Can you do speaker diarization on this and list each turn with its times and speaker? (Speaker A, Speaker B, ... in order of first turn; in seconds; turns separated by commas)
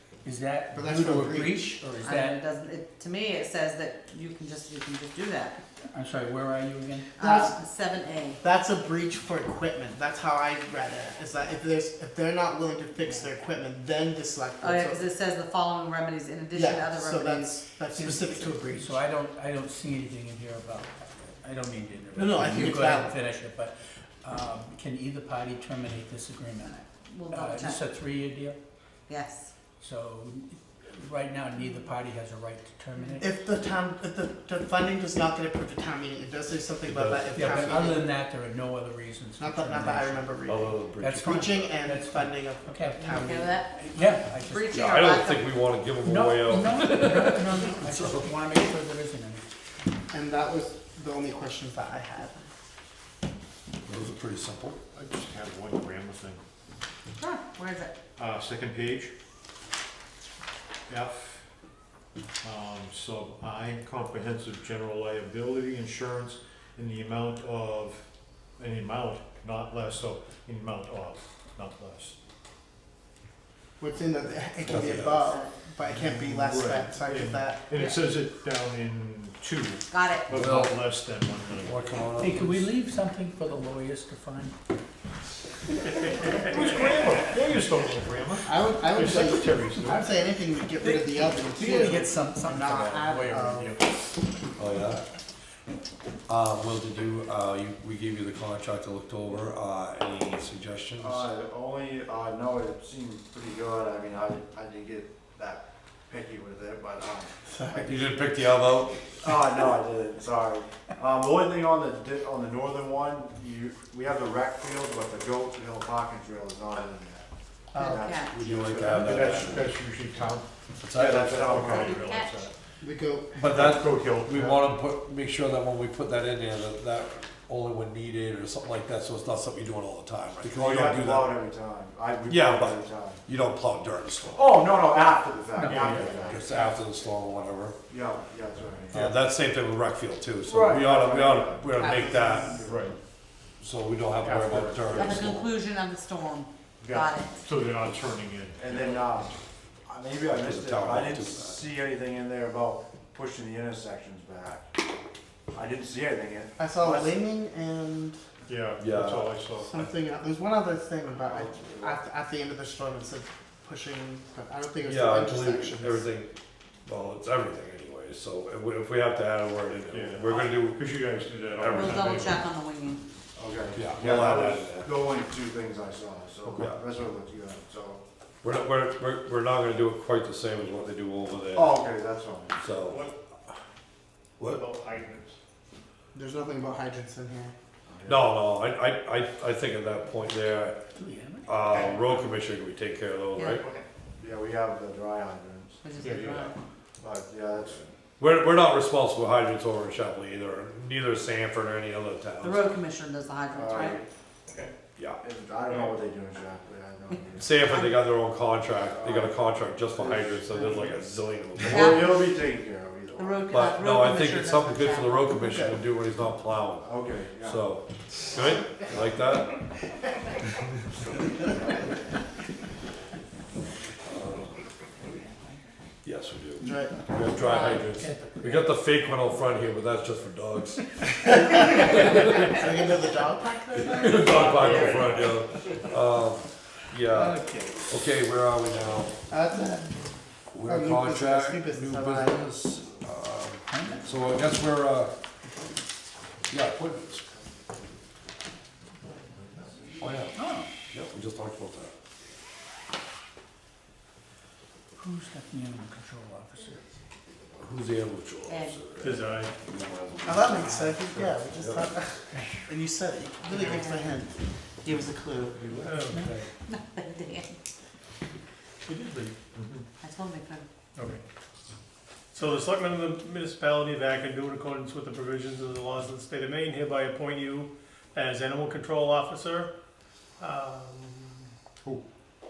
Speaker A: 0.2-2.4, Speaker B: 0.7-1.9, Speaker C: 2.0-5.6, Speaker A: 5.9-7.1, Speaker C: 7.2-8.4, Speaker B: 7.2-7.5, Speaker B: 8.4-15.0, Speaker C: 14.6-17.6, Speaker B: 16.5-19.0, Speaker A: 17.9-28.6, Speaker B: 22.1-23.2, Speaker C: 26.6-27.8, Speaker C: 29.1-29.5, Speaker A: 29.8-33.3, Speaker B: 33.2-38.1, Speaker D: 36.9-37.6, Speaker A: 37.3-40.3, Speaker B: 39.4-43.6, Speaker D: 40.5-41.7, Speaker A: 41.0-44.9, Speaker C: 43.1-45.6, Speaker D: 44.7-48.3, Speaker A: 46.0-49.5, Speaker B: 50.1-52.5, Speaker D: 53.9-54.8, Speaker E: 55.0-56.4, Speaker C: 57.2-57.9, Speaker E: 58.2-59.1, Speaker E: 60.9-61.5, Speaker E: 62.4-68.1, Speaker E: 68.6-72.2, Speaker B: 73.8-77.7, Speaker D: 74.6-75.3, Speaker C: 74.7-75.5, Speaker E: 75.9-82.0, Speaker C: 79.9-80.3, Speaker D: 80.3-80.8, Speaker D: 81.6-82.7, Speaker A: 82.2-84.5, Speaker E: 85.9-90.1, Speaker B: 88.4-93.8, Speaker A: 90.8-93.8, Speaker D: 94.6-95.1, Speaker D: 96.3-101.3, Speaker F: 101.0-108.1, Speaker B: 107.5-108.0, Speaker D: 107.8-109.8, Speaker F: 109.2-119.7, Speaker B: 117.7-118.0, Speaker C: 117.8-118.3, Speaker D: 118.3-119.7, Speaker E: 118.9-120.5, Speaker D: 120.8-121.6, Speaker F: 120.9-122.0, Speaker E: 121.1-122.5, Speaker C: 121.6-122.4, Speaker B: 122.8-123.6, Speaker D: 123.4-131.4, Speaker E: 123.4-124.6, Speaker F: 130.4-133.2, Speaker D: 132.3-134.6, Speaker F: 134.3-136.6, Speaker A: 135.6-136.0, Speaker E: 135.7-136.2, Speaker D: 136.2-137.8, Speaker F: 137.9-139.2, Speaker D: 138.9-142.6, Speaker F: 140.4-143.0, Speaker B: 141.8-142.6, Speaker E: 142.6-143.0, Speaker D: 143.6-145.6, Speaker F: 144.2-145.3, Speaker C: 144.9-147.4, Speaker F: 146.8-147.7, Speaker E: 147.4-149.2, Speaker F: 148.6-154.7, Speaker D: 150.3-151.7, Speaker F: 155.5-157.2, Speaker B: 156.6-158.2, Speaker E: 158.5-159.9, Speaker D: 158.8-159.3, Speaker B: 159.6-166.1, Speaker F: 161.2-162.0, Speaker D: 164.8-166.3, Speaker D: 166.9-170.9, Speaker E: 169.7-172.4, Speaker D: 171.6-172.4, Speaker C: 171.7-173.0, Speaker F: 173.4-178.0, Speaker D: 173.7-175.0, Speaker E: 174.0-174.7, Speaker E: 176.4-176.7, Speaker D: 176.6-176.8, Speaker D: 178.4-181.8, Speaker F: 181.5-182.6, Speaker D: 182.6-183.1, Speaker E: 182.8-183.2, Speaker D: 184.4-184.6, Speaker E: 184.4-185.4, Speaker B: 186.1-187.5, Speaker F: 187.9-188.3, Speaker D: 188.1-190.8, Speaker A: 190.9-191.7, Speaker D: 191.5-193.6, Speaker E: 191.7-192.1, Speaker C: 193.4-193.6, Speaker E: 193.5-193.9, Speaker F: 194.2-195.8, Speaker C: 195.8-196.6, Speaker E: 196.0-196.4, Speaker F: 197.0-197.9, Speaker D: 198.2-202.7, Speaker C: 202.4-204.0, Speaker F: 203.5-204.1, Speaker D: 205.0-205.2, Speaker F: 205.2-207.7, Speaker D: 207.4-212.2, Speaker F: 208.8-213.5, Speaker C: 211.6-212.2, Speaker C: 213.2-215.3, Speaker D: 213.5-219.6, Speaker B: 215.4-215.8, Speaker F: 216.8-217.7, Speaker F: 221.0-222.0, Speaker D: 224.1-224.6, Speaker D: 226.0-232.5, Speaker B: 226.6-227.0, Speaker C: 227.4-227.8, Speaker B: 231.3-235.2, Speaker D: 233.8-239.2, Speaker G: 234.3-235.1, Speaker G: 237.1-237.8, Speaker B: 239.3-239.9, Speaker D: 240.5-245.2, Speaker B: 240.7-242.4, Speaker A: 243.7-244.1, Speaker D: 246.5-247.2, Speaker D: 250.0-250.4, Speaker A: 250.3-250.7, Speaker D: 250.9-251.9, Speaker A: 255.0-256.8, Speaker D: 257.6-261.9, Speaker C: 258.5-258.8, Speaker E: 259.0-259.5, Speaker B: 260.2-265.7, Speaker C: 263.5-264.1, Speaker E: 265.6-266.4, Speaker G: 265.8-266.3, Speaker A: 266.1-266.4, Speaker C: 266.6-267.6, Speaker G: 268.9-269.3, Speaker E: 269.1-269.9, Speaker C: 270.0-270.7, Speaker G: 272.3-279.7, Speaker G: 280.4-281.5